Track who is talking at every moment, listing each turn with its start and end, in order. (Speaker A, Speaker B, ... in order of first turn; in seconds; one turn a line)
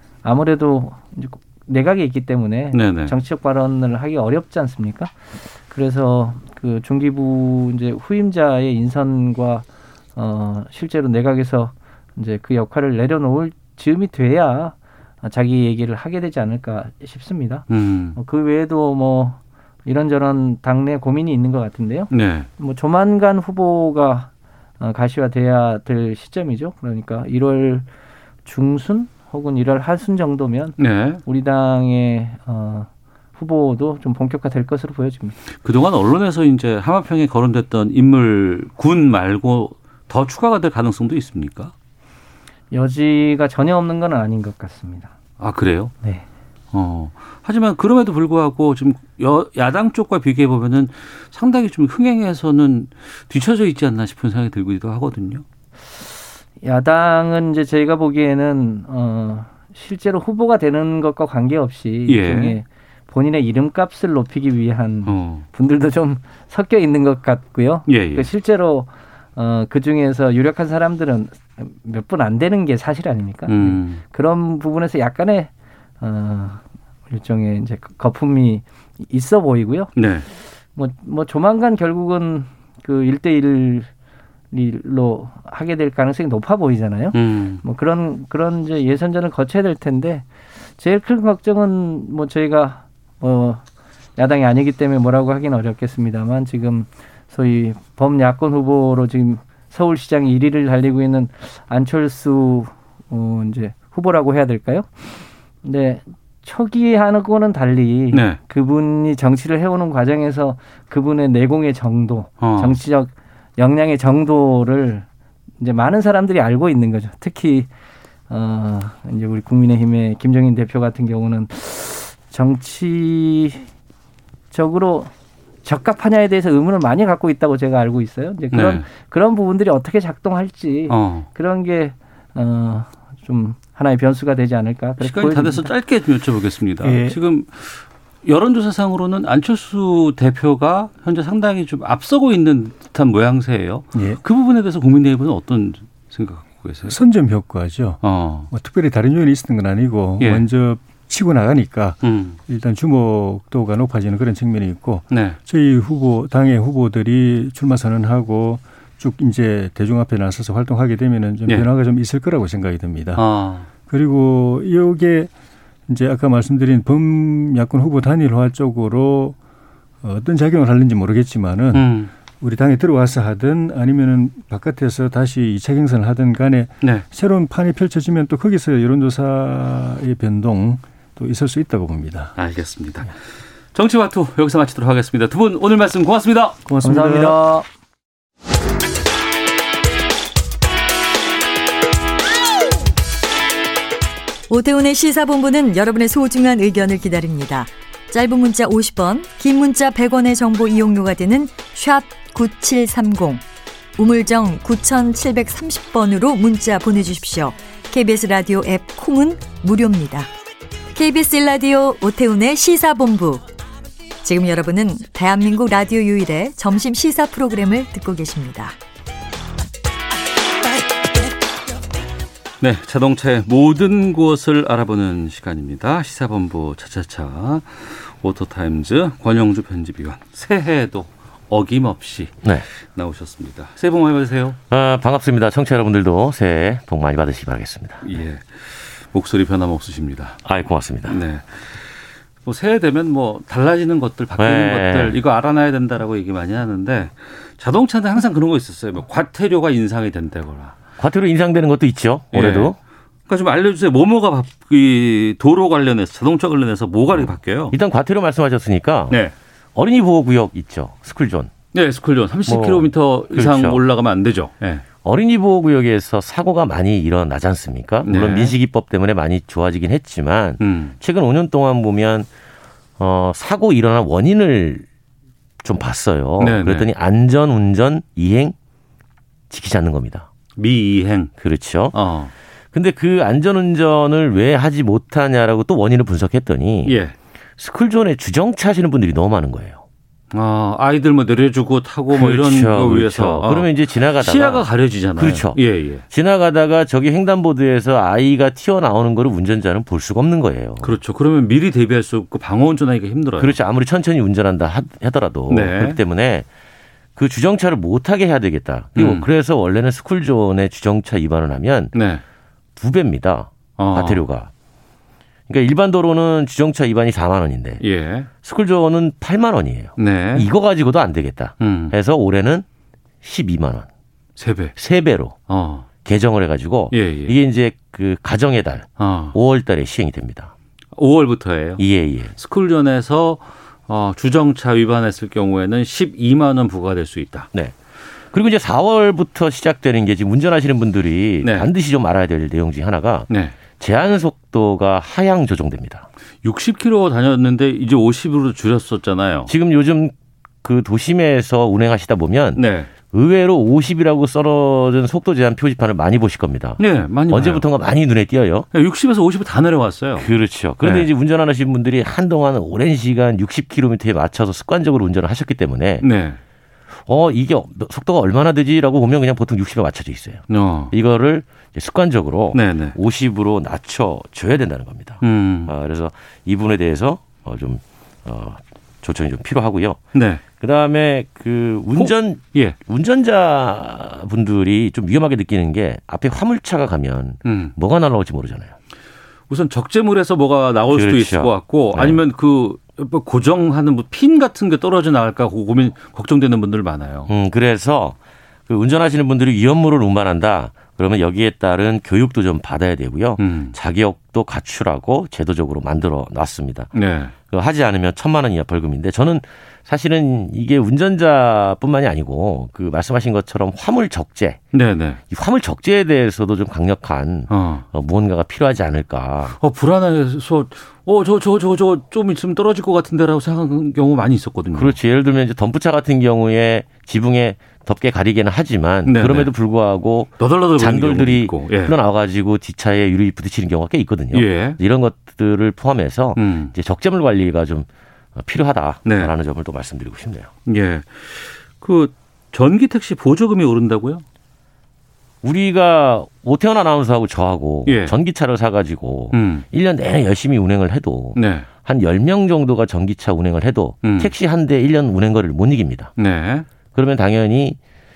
Speaker A: 0.2-5.1
Speaker B: 2.7-3.1
Speaker A: 5.7-9.6
Speaker A: 10.2-27.9
Speaker B: 17.7-18.2
Speaker B: 22.1-22.5
Speaker A: 28.4-35.4
Speaker B: 30.8-31.2
Speaker B: 35.6-41.7
Speaker A: 42.7-45.1
Speaker B: 45.4-45.9
Speaker B: 46.7-55.4
Speaker A: 56.6-79.9
Speaker B: 62.1-62.6
Speaker B: 65.0-65.5
Speaker B: 67.9-68.3
Speaker B: 73.5-74.0
Speaker B: 80.0-80.3
Speaker A: 80.8-83.9
Speaker A: 84.5-90.3
Speaker B: 87.1-87.6
Speaker A: 90.8-93.6
Speaker A: 94.2-105.1
Speaker A: 105.6-115.0
Speaker B: 108.1-108.4
Speaker B: 112.4-112.8
Speaker A: 115.6-117.7
Speaker A: 118.3-123.7
Speaker A: 124.5-125.1
Speaker A: 125.6-135.7
Speaker B: 128.5-128.8
Speaker B: 130.9-131.3
Speaker B: 135.0-147.0
Speaker C: 136.8-137.2
Speaker C: 143.9-144.2
Speaker C: 146.9-163.2
Speaker B: 148.0-148.5
Speaker B: 150.2-150.4
Speaker B: 152.0-152.4
Speaker B: 155.1-155.4
Speaker B: 163.2-163.7
Speaker C: 163.9-165.3
Speaker C: 165.9-169.4
Speaker C: 170.0-182.3
Speaker B: 171.7-172.1
Speaker B: 182.4-183.1
Speaker B: 183.7-186.6
Speaker C: 186.7-187.4
Speaker A: 186.8-187.7
Speaker D: 194.5-203.4
Speaker D: 204.0-210.3
Speaker D: 210.9-213.4
Speaker D: 214.2-218.8
Speaker B: 222.6-234.6
Speaker E: 234.7-238.0
Speaker B: 238.0-240.4
Speaker E: 240.4-241.2
Speaker B: 241.1-250.8
Speaker E: 244.4-245.2
Speaker E: 251.0-252.8
Speaker B: 252.3-252.7
Speaker B: 253.3-257.8
Speaker E: 257.1-259.2
Speaker E: 259.7-261.5
Speaker B: 261.7-264.8
Speaker E: 262.5-263.8
Speaker E: 265.0-272.3
Speaker B: 268.0-268.5
Speaker B: 270.6-270.9
Speaker E: 273.0-274.9
Speaker E: 275.6-278.5
Speaker B: 276.4-276.9
Speaker E: 279.5-280.3
Speaker B: 280.6-281.3
Speaker E: 281.4-281.9
Speaker B: 281.9-282.3
Speaker E: 282.7-287.0
Speaker B: 286.8-287.1
Speaker E: 287.6-289.8
Speaker B: 290.3-296.0
Speaker E: 292.1-294.6
Speaker E: 295.2-295.6
Speaker E: 296.1-301.0
Speaker B: 300.8-303.6
Speaker E: 303.4-306.4
Speaker B: 305.5-306.0
Speaker E: 307.1-311.9
Speaker B: 308.9-309.3
Speaker B: 311.9-312.2
Speaker E: 312.8-314.5
Speaker B: 313.8-314.2
Speaker E: 315.5-317.8
Speaker B: 317.8-318.3
Speaker E: 318.4-322.6
Speaker B: 320.0-320.5
Speaker B: 321.6-321.9
Speaker E: 323.2-323.9
Speaker B: 324.4-324.8
Speaker E: 324.8-325.4
Speaker B: 325.5-325.9
Speaker E: 326.0-330.5
Speaker B: 326.9-327.4
Speaker B: 329.0-329.4
Speaker B: 330.9-331.8
Speaker E: 331.8-332.3
Speaker B: 332.4-337.5
Speaker E: 338.3-346.1
Speaker B: 341.4-341.7
Speaker B: 343.3-343.6
Speaker B: 346.4-349.5
Speaker E: 349.5-358.7
Speaker B: 352.5-352.9
Speaker B: 356.8-357.6
Speaker B: 358.7-360.3
Speaker E: 360.2-366.1
Speaker B: 360.8-361.1
Speaker B: 366.0-366.4
Speaker E: 367.1-380.0
Speaker B: 370.5-370.9
Speaker B: 372.5-373.0
Speaker B: 375.2-375.7
Speaker B: 380.1-380.4
Speaker E: 380.5-388.7
Speaker B: 381.9-382.8
Speaker B: 387.4-387.7
Speaker B: 389.5-397.3
Speaker E: 390.9-392.2
Speaker E: 397.3-406.9
Speaker B: 403.4-403.8
Speaker B: 406.9-407.3
Speaker E: 407.4-414.6
Speaker B: 414.7-415.2
Speaker E: 415.3-419.6
Speaker B: 417.5-417.9
Speaker B: 419.6-425.0
Speaker E: 424.7-440.5
Speaker B: 429.0-429.5
Speaker B: 430.4-432.0
Speaker B: 434.3-434.8
Speaker B: 436.4-436.7
Speaker B: 439.0-439.3
Speaker B: 440.6-444.2
Speaker E: 445.4-456.1
Speaker B: 447.9-448.1
Speaker B: 449.3-449.6
Speaker B: 451.3-451.7
Speaker B: 454.0-454.3
Speaker B: 456.2-456.6
Speaker E: 456.9-457.8